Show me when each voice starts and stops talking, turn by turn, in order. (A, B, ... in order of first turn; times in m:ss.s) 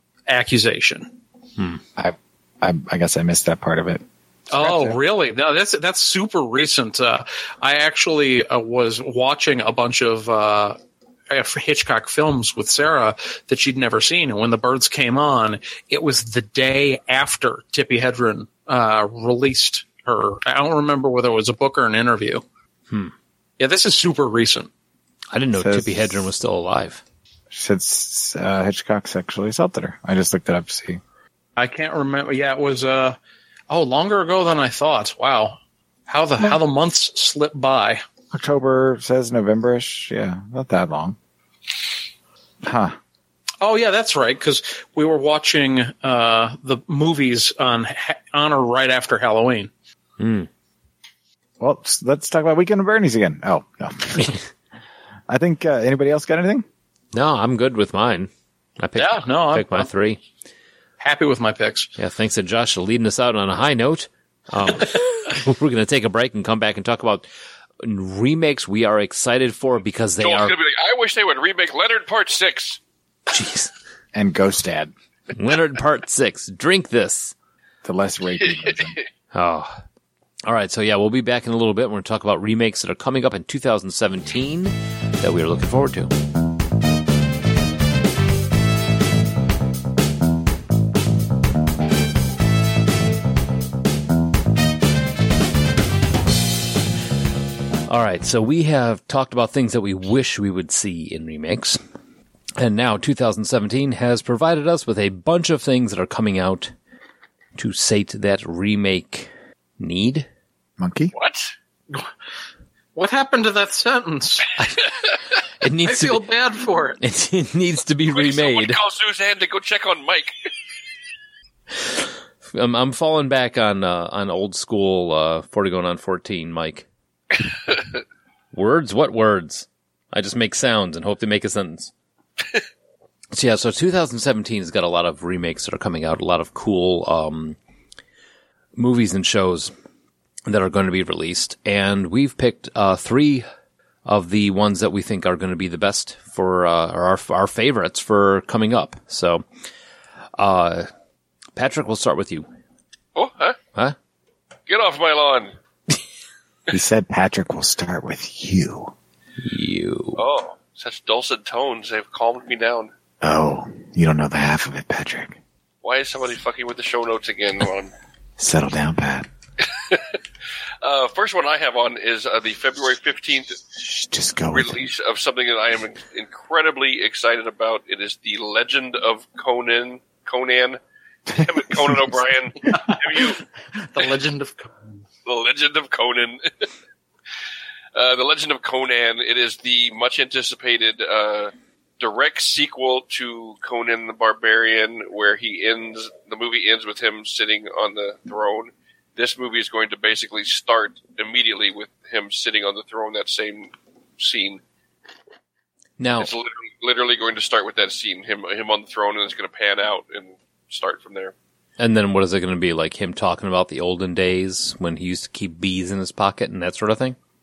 0:00.3-0:01.1 A
0:02.0-0:04.0 B
0:04.5-0:10.8 A
0:04.6-0:05.0 B
0:11.3-0:22.4 A
0:23.6-0:24.7 A
0:25.3-0:27.0 C
0:25.6-0:26.2 B
0:27.5-0:31.0 B
0:31.6-0:33.2 A
0:33.7-0:38.0 A
0:38.3-0:41.2 B
0:42.6-0:43.0 B
0:43.6-0:49.7 A
0:50.2-0:50.5 C
0:51.6-0:54.4 B
0:55.3-0:56.6 B
0:57.1-1:00.2 C
0:59.0-0:59.9 A
1:01.0-1:01.9 A
1:02.0-1:07.2 C
1:07.8-1:10.5 C
1:10.2-1:12.8 D
1:13.3-1:13.7 C
1:14.1-1:14.9 B
1:15.3-1:17.3 C
1:17.8-1:19.0 B
1:19.3-1:19.8 C
1:20.4-1:26.1 C
1:37.9-1:41.8 C
1:42.6-1:46.7 C
1:47.6-1:50.3 C
1:50.8-1:51.1 B
1:51.1-1:51.5 D
1:52.9-1:54.5 A
1:54.6-1:54.8 C
1:55.6-1:56.2 C
1:55.8-1:57.0 A
1:57.0-1:58.8 C
1:58.1-2:00.3 D
2:02.5-2:06.9 C
2:08.5-2:11.9 C
2:13.3-2:17.6 C
2:18.8-2:19.7 C
2:20.4-2:23.4 C
2:24.0-2:29.4 C
2:30.4-2:30.9 C
2:31.6-2:32.5 C
2:33.1-2:33.6 D
2:34.7-2:35.5 D
2:36.7-2:38.9 B
2:39.4-2:40.2 C
2:40.1-2:42.9 D
2:43.2-2:45.4 B
2:45.8-2:47.9 D
2:48.4-2:49.3 B
2:49.6-2:50.2 D
2:50.8-2:53.6 D
2:53.8-2:54.8 B
2:54.5-3:00.8 D
3:01.3-3:03.4 D
3:01.3-3:02.1 B
3:02.8-3:03.2 A
3:03.8-3:04.8 A
3:05.2-3:06.7 D
3:07.9-3:24.6 D
3:26.0-3:26.3 C
3:26.2-3:31.3 D
3:31.8-3:37.2 C